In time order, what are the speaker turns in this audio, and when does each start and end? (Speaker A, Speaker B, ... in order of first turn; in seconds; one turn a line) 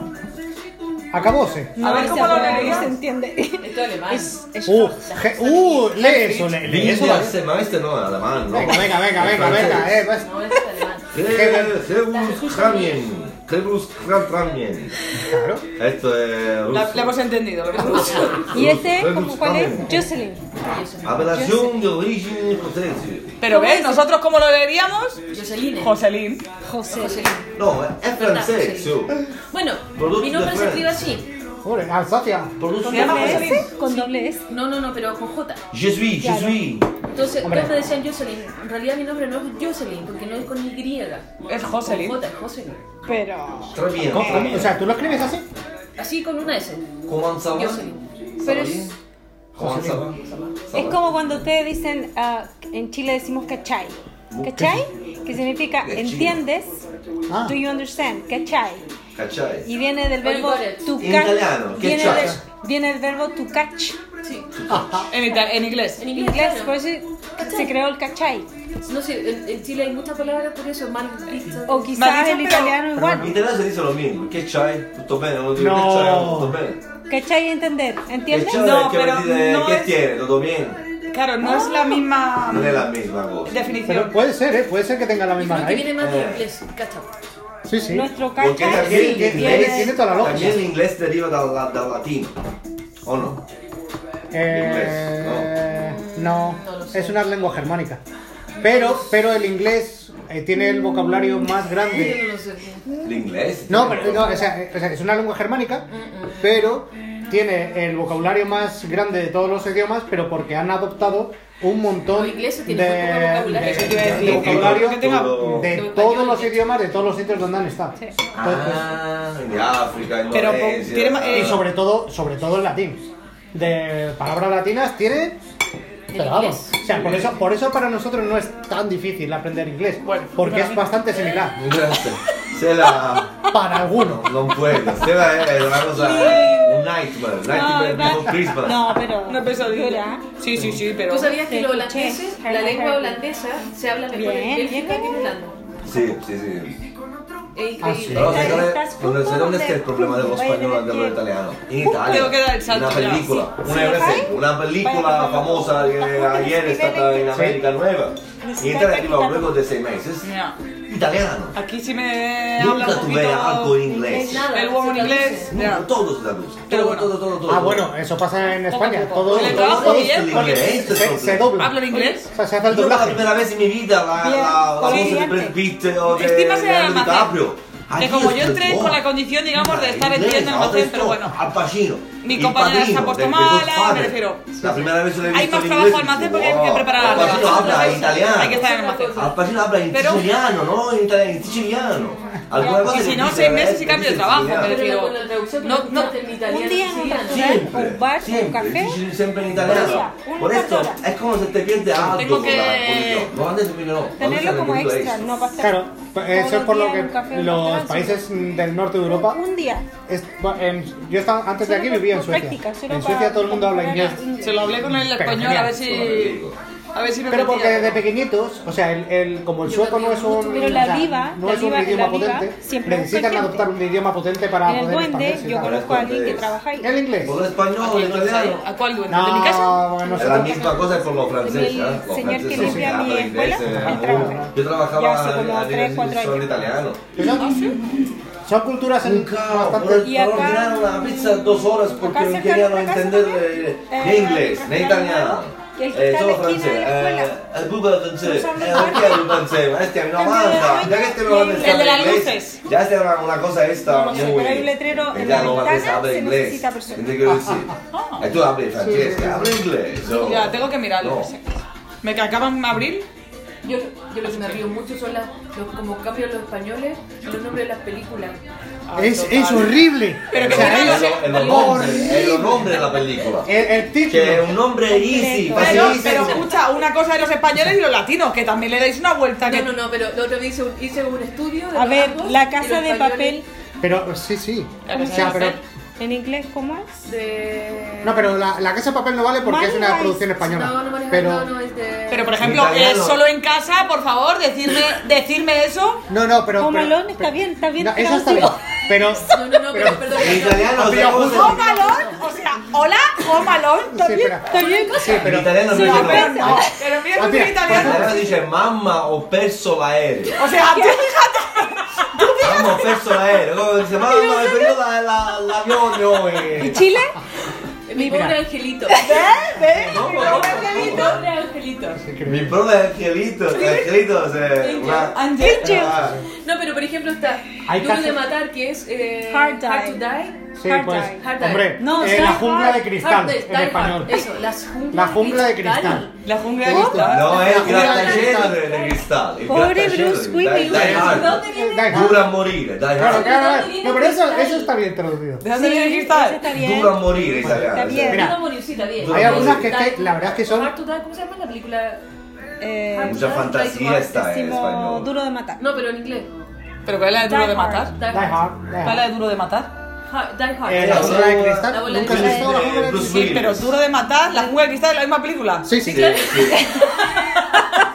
Speaker A: 1.1-2.0
Speaker B: 1.8-5.0
Speaker C: 1.8-2.9
Speaker D: 1.9-2.9
Speaker D: 3.6-6.1
Speaker A: 4.7-7.4
Speaker C: 6.0-6.7
Speaker E: 6.6-10.1
Speaker A: 8.5-10.4
Speaker D: 9.4-11.1
Speaker E: 11.1-15.0
Speaker A: 11.3-11.8
Speaker D: 12.0-13.1
Speaker A: 15.2-15.6
Speaker E: 15.7-17.1
Speaker C: 16.7-18.5
Speaker D: 17.7-18.6
Speaker B: 18.5-20.5
Speaker E: 18.5-20.1
Speaker D: 20.6-21.7
Speaker E: 21.0-23.4
Speaker C: 23.4-26.5
Speaker B: 23.4-24.0
Speaker D: 25.3-25.9
Speaker B: 26.6-27.4
Speaker D: 26.9-27.5
Speaker E: 27.6-29.1
Speaker D: 28.1-29.0
Speaker D: 29.5-31.3
Speaker E: 29.9-31.0
Speaker A: 31.6-32.6
Speaker E: 32.6-33.6
Speaker C: 32.8-33.8
Speaker B: 32.9-34.5
Speaker D: 33.1-35.6
Speaker E: 35.7-36.9
Speaker B: 36.2-36.6
Speaker D: 37.1-42.8
Speaker A: 37.4-37.8
Speaker C: 41.5-42.2
Speaker B: 43.1-43.8
Speaker E: 43.7-44.8
Speaker A: 44.1-45.5
Speaker D: 46.0-48.9
Speaker E: 47.1-49.0
Speaker E: 49.5-51.5
Speaker A: 49.6-50.0
Speaker D: 50.2-50.6
Speaker B: 50.7-56.9
Speaker E: 54.3-54.7
Speaker E: 55.8-56.4
Speaker A: 57.3-57.6
Speaker B: 57.4-58.9
Speaker E: 59.1-59.7
Speaker B: 59.6-64.0
Speaker D: 60.2-61.0
Speaker E: 61.0-62.4
Speaker A: 62.0-62.4
Speaker D: 64.2-64.5
Speaker E: 64.5-65.1
Speaker A: 64.7-65.1
Speaker C: 65.1-66.0
Speaker D: 66.0-66.8
Speaker B: 66.1-68.5
Speaker D: 67.4-67.7
Speaker D: 68.8-72.0
Speaker B: 71.7-73.4
Speaker C: 72.0-72.8
Speaker A: 73.0-73.3
Speaker E: 73.1-76.8
Speaker A: 75.5-76.6
Speaker B: 77.1-78.7
Speaker E: 78.3-80.8
Speaker C: 78.5-80.0
Speaker C: 81.1-82.9
Speaker B: 81.4-82.0
Speaker E: 82.5-83.6
Speaker C: 83.5-84.2
Speaker A: 83.9-86.0
Speaker D: 85.4-87.1
Speaker E: 86.0-86.5
Speaker A: 87.7-88.1
Speaker B: 87.9-90.6
Speaker E: 88.4-92.4
Speaker A: 88.6-90.6
Speaker E: 93.0-93.4
Speaker A: 94.3-98.0
Speaker E: 94.5-95.5
Speaker D: 95.8-97.2
Speaker D: 98.5-99.1
Speaker A: 98.6-102.2
Speaker D: 101.8-102.9
Speaker E: 103.0-104.4
Speaker A: 103.7-105.9
Speaker D: 105.9-106.6
Speaker A: 106.4-118.9
Speaker D: 112.1-114.2
Speaker C: 113.6-115.5
Speaker E: 113.8-115.8
Speaker D: 115.7-116.6
Speaker E: 118.3-121.6
Speaker C: 120.3-121.6
Speaker A: 121.3-125.4
Speaker D: 126.1-126.8
Speaker A: 126.1-131.6
Speaker E: 126.9-127.4
Speaker C: 130.0-131.0
Speaker E: 131.6-133.3
Speaker A: 133.5-134.3
Speaker E: 133.9-138.9
Speaker C: 135.8-136.8
Speaker B: 137.4-140.2
Speaker C: 138.7-141.4
Speaker D: 141.1-145.6
Speaker B: 141.4-143.2
Speaker B: 144.1-145.3
Speaker E: 145.8-146.8
Speaker D: 147.6-148.6
Speaker A: 147.8-148.7
Speaker E: 148.1-160.3
Speaker B: 148.2-151.2
Speaker C: 151.8-153.5
Speaker B: 153.6-157.4
Speaker B: 158.4-159.5
Speaker C: 160.2-160.6
Speaker E: 160.9-161.6
Speaker C: 161.6-163.8
Speaker E: 162.6-164.5
Speaker B: 164.1-164.4
Speaker D: 164.1-165.5
Speaker C: 164.5-165.9
Speaker E: 165.5-167.9
Speaker C: 166.7-167.1
Speaker A: 167.5-171.8
Speaker C: 168.7-170.9
Speaker E: 169.3-171.5
Speaker C: 171.6-172.3
Speaker D: 171.9-172.3
Speaker A: 172.3-173.3
Speaker E: 172.7-194.8
Speaker B: 174.2-175.6
Speaker C: 174.8-175.2
Speaker C: 176.1-177.4
Speaker C: 178.0-181.4
Speaker C: 182.2-189.3
Speaker D: 186.9-189.4
Speaker C: 189.9-190.3
Speaker C: 192.6-196.2
Speaker B: 192.6-193.0
Speaker D: 194.6-197.7
Speaker B: 196.4-199.0
Speaker E: 197.2-205.4
Speaker A: 199.6-200.0
Speaker B: 199.6-201.0
Speaker C: 202.0-203.3
Speaker B: 204.2-208.2
Speaker A: 205.6-209.4
Speaker B: 209.1-209.9
Speaker A: 210.1-215.8
Speaker B: 211.6-214.7
Speaker C: 214.4-216.4
Speaker E: 215.8-216.6
Speaker C: 216.9-218.0
Speaker A: 217.3-225.8
Speaker D: 219.6-221.1
Speaker B: 220.4-223.7
Speaker B: 224.6-226.9
Speaker E: 225.6-226.6
Speaker A: 226.8-227.4
Speaker E: 227.2-228.6
Speaker C: 227.8-229.9
Speaker A: 229.1-230.8
Speaker B: 230.1-236.7
Speaker E: 230.2-237.1
Speaker A: 232.5-232.9
Speaker A: 233.6-234.5
Speaker A: 237.2-237.6
Speaker C: 237.3-238.0
Speaker A: 238.4-240.1
Speaker E: 239.0-261.3
Speaker B: 239.9-247.3
Speaker B: 248.2-249.5
Speaker B: 250.1-252.1
Speaker C: 251.2-252.6
Speaker B: 253.8-257.1
Speaker C: 257.9-258.3
Speaker A: 258.8-259.7
Speaker C: 260.0-263.1
Speaker D: 263.6-268.4
Speaker C: 264.2-264.6
Speaker C: 268.9-272.1
Speaker A: 268.9-272.8
Speaker E: 270.3-273.5
Speaker A: 273.4-274.6
Speaker E: 274.1-276.5
Speaker B: 274.9-276.3
Speaker A: 275.5-276.5
Speaker C: 275.6-279.7
Speaker D: 279.4-283.4
Speaker B: 281.7-283.4
Speaker A: 283.8-285.6
Speaker C: 284.9-285.6
Speaker B: 285.0-285.5
Speaker B: 286.0-287.0
Speaker D: 287.1-288.2
Speaker A: 288.0-291.5
Speaker B: 289.4-290.3
Speaker D: 290.4-292.5
Speaker C: 292.1-296.0
Speaker E: 292.4-293.2
Speaker A: 296.1-302.0
Speaker B: 296.6-299.3
Speaker D: 299.3-302.2
Speaker E: 300.1-301.8
Speaker C: 301.2-304.3
Speaker A: 303.9-308.3
Speaker B: 304.0-306.8
Speaker D: 304.5-305.3
Speaker E: 305.2-306.5
Speaker C: 305.7-308.3
Speaker E: 307.7-310.4
Speaker C: 310.4-312.7
Speaker B: 310.6-311.2
Speaker B: 312.1-313.0
Speaker E: 312.4-316.9
Speaker B: 314.0-314.8
Speaker B: 316.6-317.2
Speaker D: 317.9-319.3
Speaker A: 318.0-318.4
Speaker B: 318.9-321.1
Speaker C: 319.0-321.1
Speaker E: 319.9-321.2
Speaker D: 319.9-322.0
Speaker A: 322.0-322.6
Speaker E: 322.2-326.2
Speaker C: 323.5-323.9
Speaker D: 324.6-325.3
Speaker C: 325.0-325.9
Speaker B: 325.4-326.0
Speaker A: 325.7-326.3
Speaker D: 326.3-330.5
Speaker A: 327.7-328.3
Speaker B: 329.3-330.0
Speaker A: 330.6-334.3
Speaker B: 330.6-331.2
Speaker D: 331.2-336.1
Speaker B: 331.8-332.9
Speaker A: 334.9-336.1
Speaker C: 336.2-338.0
Speaker A: 336.6-338.6
Speaker B: 336.7-337.5
Speaker E: 337.0-343.4
Speaker D: 337.4-339.0
Speaker B: 339.4-342.0
Speaker A: 340.7-342.3
Speaker D: 340.8-341.7
Speaker A: 342.9-345.4
Speaker D: 343.0-344.7
Speaker C: 345.4-346.5
Speaker B: 345.5-348.4
Speaker E: 346.5-348.3
Speaker A: 347.4-348.4
Speaker D: 348.1-352.0
Speaker E: 349.0-349.8
Speaker A: 349.0-350.7
Speaker B: 352.6-353.5
Speaker D: 352.9-354.2
Speaker E: 353.0-355.1
Speaker B: 354.1-355.6
Speaker D: 355.6-356.3
Speaker C: 356.9-357.9
Speaker B: 357.2-357.9
Speaker D: 357.9-358.4
Speaker A: 358.1-359.1
Speaker C: 358.8-359.7
Speaker D: 360.1-362.7
Speaker A: 360.6-363.2
Speaker E: 360.8-363.7
Speaker B: 362.1-362.6
Speaker C: 362.8-365.7
Speaker A: 365.6-366.2
Speaker E: 365.9-366.8
Speaker D: 365.9-366.8
Speaker B: 366.8-367.4